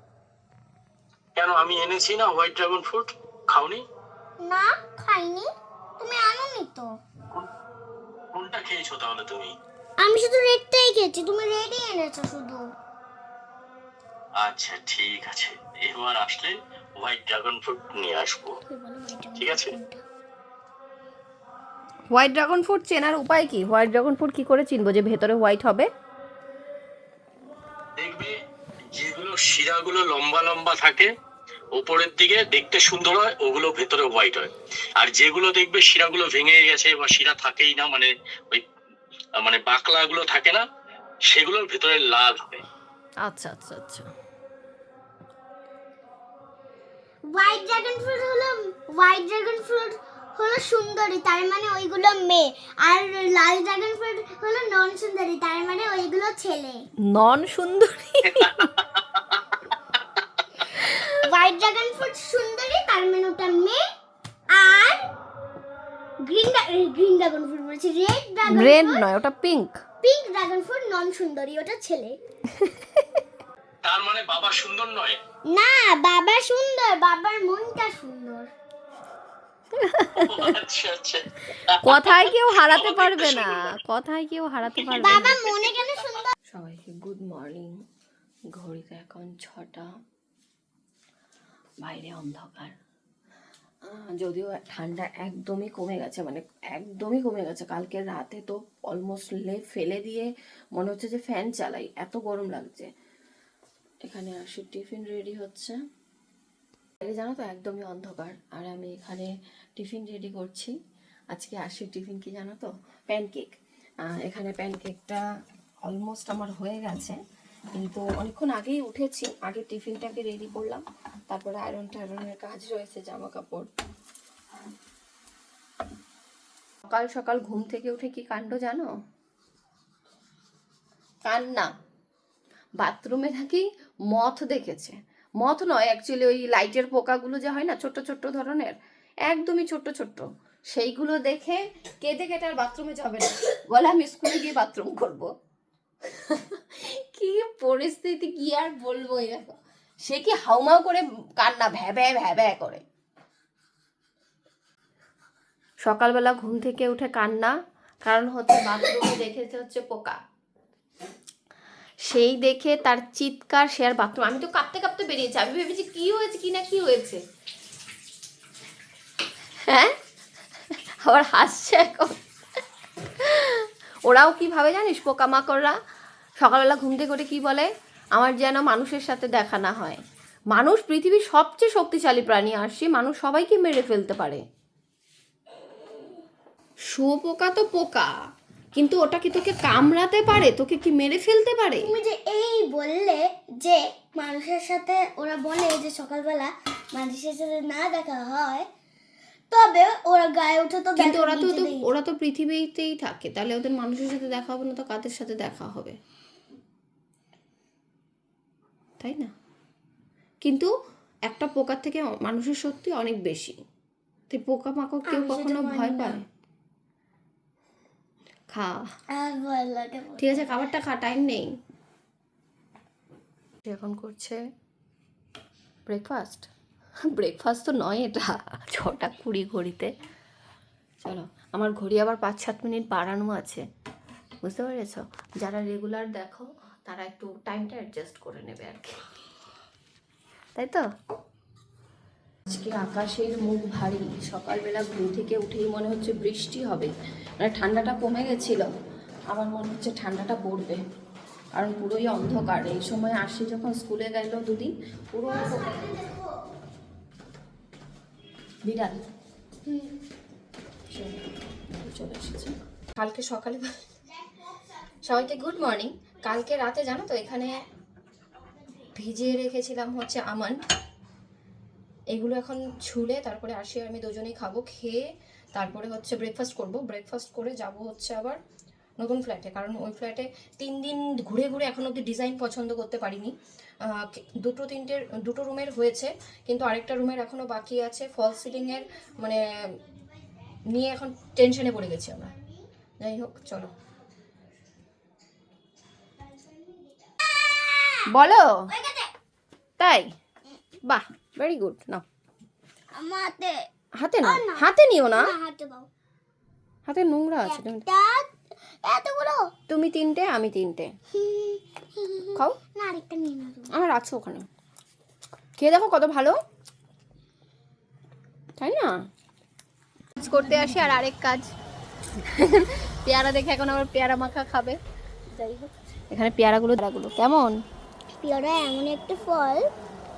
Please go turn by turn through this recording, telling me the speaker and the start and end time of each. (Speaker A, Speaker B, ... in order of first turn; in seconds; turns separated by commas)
Speaker A: 1.4-3.8, Speaker B: 4.4-5.5, Speaker B: 6.0-6.9, Speaker A: 8.3-9.5, Speaker B: 10.0-12.6, Speaker A: 14.4-18.5, Speaker B: 18.7-20.0, Speaker A: 19.4-19.7, Speaker C: 22.1-25.9, Speaker A: 28.0-28.3, Speaker A: 28.9-31.1, Speaker A: 31.7-38.6, Speaker A: 39.4-40.6, Speaker A: 41.3-42.6, Speaker C: 43.2-44.0, Speaker B: 47.3-56.8, Speaker C: 57.1-58.7, Speaker C: 60.7-61.0, Speaker B: 61.2-63.8, Speaker B: 64.5-65.1, Speaker B: 66.2-69.0, Speaker C: 68.5-69.8, Speaker B: 70.0-72.2, Speaker C: 72.6-73.0, Speaker A: 73.8-75.2, Speaker B: 75.5-78.5, Speaker C: 79.7-80.5, Speaker A: 80.1-83.6, Speaker C: 81.8-85.4, Speaker A: 84.8-85.2, Speaker B: 85.0-86.3, Speaker C: 86.5-87.7, Speaker C: 88.5-89.9, Speaker C: 91.8-92.7, Speaker C: 93.8-102.9, Speaker C: 104.0-105.8, Speaker C: 107.0-110.7, Speaker C: 111.3-113.5, Speaker C: 114.0-115.2, Speaker C: 115.8-117.2, Speaker C: 117.7-123.7, Speaker C: 126.8-128.9, Speaker C: 131.2-131.7, Speaker C: 132.8-138.7, Speaker C: 139.2-145.3, Speaker C: 146.1-152.8, Speaker C: 155.8-157.5, Speaker C: 158.0-160.2, Speaker C: 162.0-167.2, Speaker C: 169.7-169.9, Speaker C: 171.0-172.2, Speaker C: 173.2-175.7, Speaker C: 176.4-180.0, Speaker C: 180.5-184.4, Speaker C: 186.9-188.1, Speaker C: 188.7-191.9, Speaker B: 191.8-198.7, Speaker B: 199.5-201.9, Speaker C: 200.9-205.9, Speaker C: 209.0-209.3, Speaker C: 210.4-210.7, Speaker C: 211.3-213.6, Speaker C: 214.3-216.2, Speaker B: 215.1-216.2, Speaker C: 218.5-218.8, Speaker B: 219.1-220.5, Speaker C: 220.2-221.5, Speaker C: 223.6-224.4, Speaker C: 225.9-226.5, Speaker C: 227.1-229.9, Speaker C: 231.0-233.6, Speaker C: 234.4-239.0, Speaker C: 240.6-240.8, Speaker C: 242.5-248.7, Speaker C: 249.3-250.8, Speaker C: 251.5-255.8, Speaker B: 255.2-256.3, Speaker C: 258.6-259.0, Speaker B: 259.7-259.9, Speaker C: 260.9-263.7, Speaker C: 265.0-267.6, Speaker C: 268.9-270.6, Speaker C: 272.1-278.4, Speaker C: 279.0-283.3, Speaker C: 283.8-289.4, Speaker C: 290.7-292.3, Speaker C: 293.0-293.7, Speaker B: 297.2-298.1, Speaker C: 298.1-298.6, Speaker B: 298.7-299.1, Speaker C: 299.8-300.1, Speaker C: 300.8-302.0, Speaker B: 302.9-303.7, Speaker C: 303.9-305.3, Speaker B: 304.2-305.9, Speaker C: 306.9-307.8, Speaker B: 307.4-308.3, Speaker B: 308.8-309.5, Speaker C: 309.7-310.9, Speaker B: 311.1-313.7, Speaker C: 313.7-314.5, Speaker C: 315.6-316.4, Speaker C: 318.6-319.0, Speaker C: 320.2-321.5, Speaker C: 322.2-324.8, Speaker C: 326.1-327.6, Speaker B: 328.2-329.7